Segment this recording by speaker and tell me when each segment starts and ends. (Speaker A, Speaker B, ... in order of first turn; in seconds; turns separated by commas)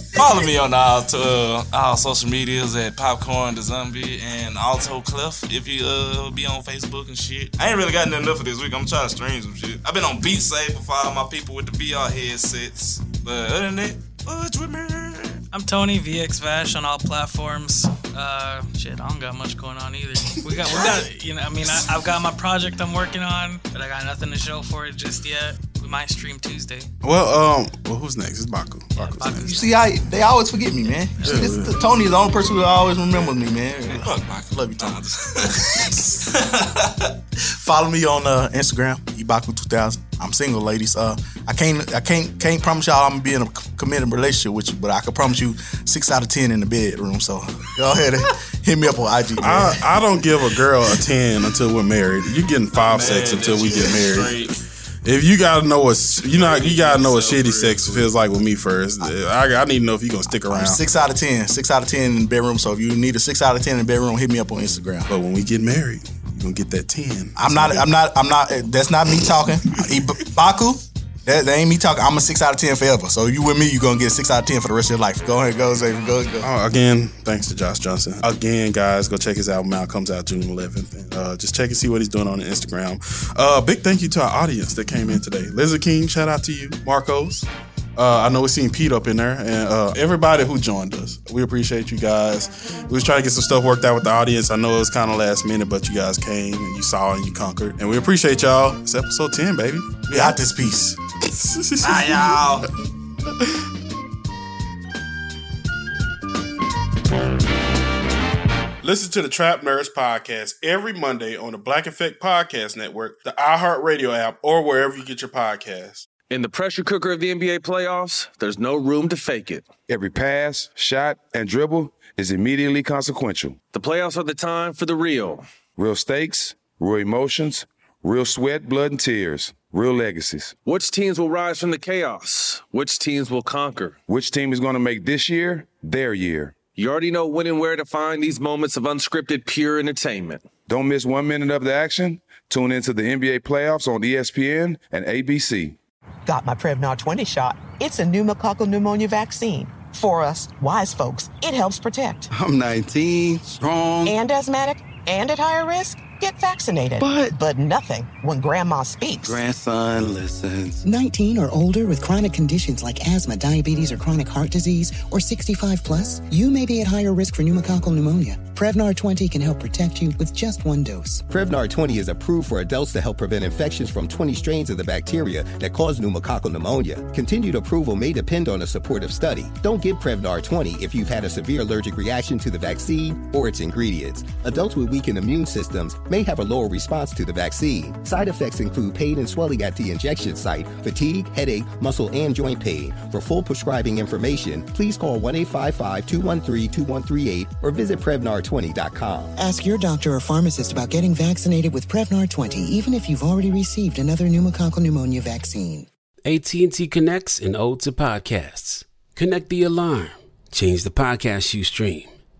Speaker A: 0.1-15.4, Speaker B: 15.5-26.9, Speaker C: 27.0-29.6, Speaker B: 28.9-29.8, Speaker D: 29.4-36.2, Speaker B: 31.2-31.5, Speaker C: 31.2-31.8, Speaker A: 33.9-37.1, Speaker D: 37.4-49.8, Speaker C: 49.4-54.4, Speaker A: 52.7-54.6, Speaker C: 55.0-60.8, Speaker A: 56.3-58.1, Speaker D: 60.5-65.1, Speaker C: 65.1-67.9, Speaker D: 67.3-76.5, Speaker C: 76.4-100.4, Speaker D: 100.1-101.0, Speaker C: 101.2-102.7, Speaker A: 101.8-102.7, Speaker C: 103.3-103.6, Speaker C: 108.8-116.1, Speaker E: 116.3-119.7, Speaker F: 119.9-123.6, Speaker E: 123.7-125.4, Speaker F: 125.8-130.6, Speaker E: 130.6-134.0, Speaker F: 134.1-136.6, Speaker E: 136.7-140.5, Speaker F: 140.7-145.8, Speaker G: 146.2-152.3, Speaker H: 152.3-154.2, Speaker G: 154.0-159.4, Speaker H: 157.0-157.3, Speaker H: 159.2-160.8, Speaker I: 160.8-171.2, Speaker J: 171.3-199.3, Speaker I: 199.3-205.9, Speaker K: 206.2-212.1